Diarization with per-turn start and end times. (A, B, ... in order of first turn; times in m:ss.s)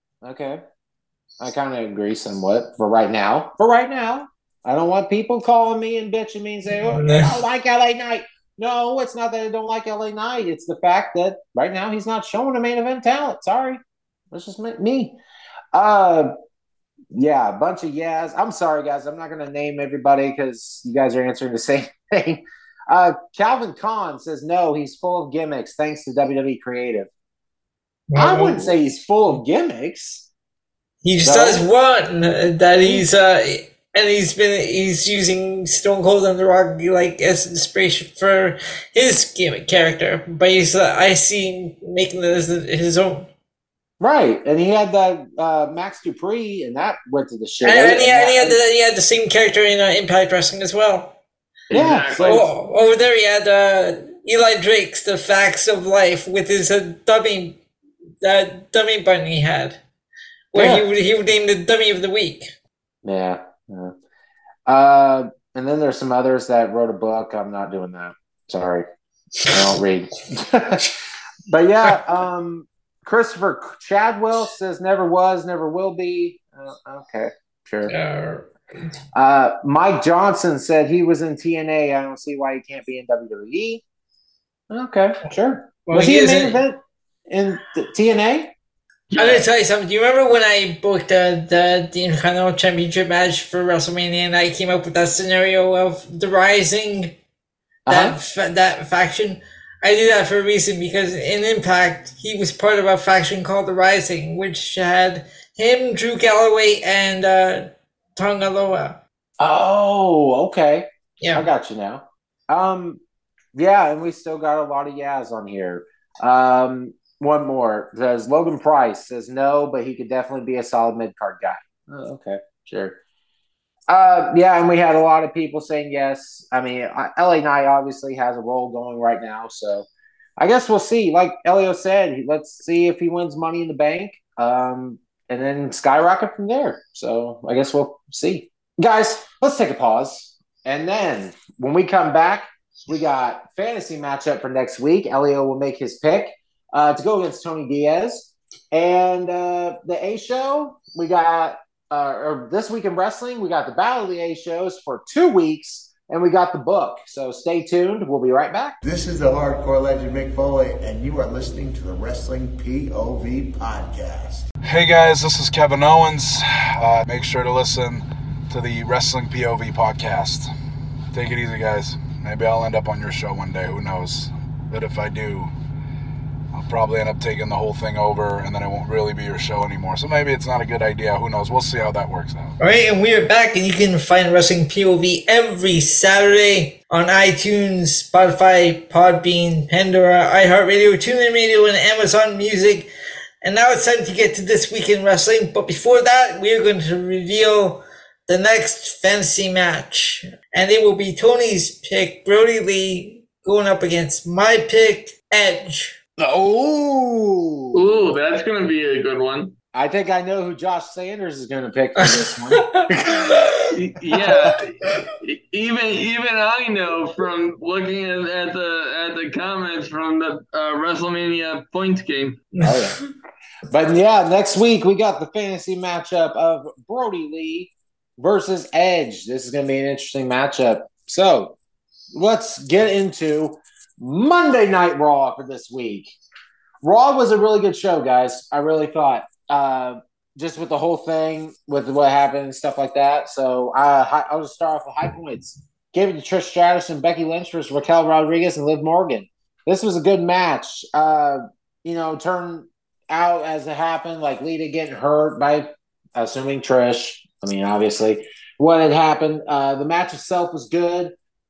0:00.2-0:00.6 A
0:01.4-0:13.8 A
0:06.9-0:07.4 B
0:14.3-0:15.2 A
0:15.7-0:16.3 A
0:17.1-0:27.1 A
0:28.1-0:28.7 B
0:28.2-0:30.3 A
0:31.0-0:43.3 B
0:31.2-0:31.6 A
0:44.0-0:48.6 A
0:47.6-0:51.2 B
0:51.7-0:52.5 C
0:51.7-0:52.5 A
0:52.2-0:57.6 B
0:58.2-0:59.8 B
1:00.5-1:02.5 B
1:00.6-1:00.8 A
1:03.0-1:03.9 A
1:04.7-1:08.8 A
1:09.5-1:11.0 A
1:11.5-1:18.0 A
1:17.9-1:18.5 B
1:19.1-1:23.8 A
1:24.7-1:28.5 A
1:25.9-1:26.6 B
1:29.1-1:29.4 C
1:29.2-1:37.1 B
1:37.9-1:38.2 A
1:37.9-1:49.0 B
1:49.4-1:53.0 A
1:51.2-1:51.5 B
1:53.6-2:03.0 A
2:03.9-2:09.9 A
2:10.4-2:38.8 A
2:38.8-2:44.5 D
2:44.7-2:50.5 E
2:51.1-2:55.5 E
2:56.5-3:02.6 E
3:02.6-3:12.9 B
3:13.4-3:26.0 B
3:26.2-3:27.9 A
3:27.7-3:29.5 C
3:29.7-3:33.4 A
3:32.0-3:33.6 B
3:33.7-3:42.4 C
3:34.2-3:34.5 A
3:42.6-3:43.0 B
3:42.6-3:43.0 A
3:43.7-3:51.6 A
3:52.1-3:56.2 A
3:56.8-4:21.1 A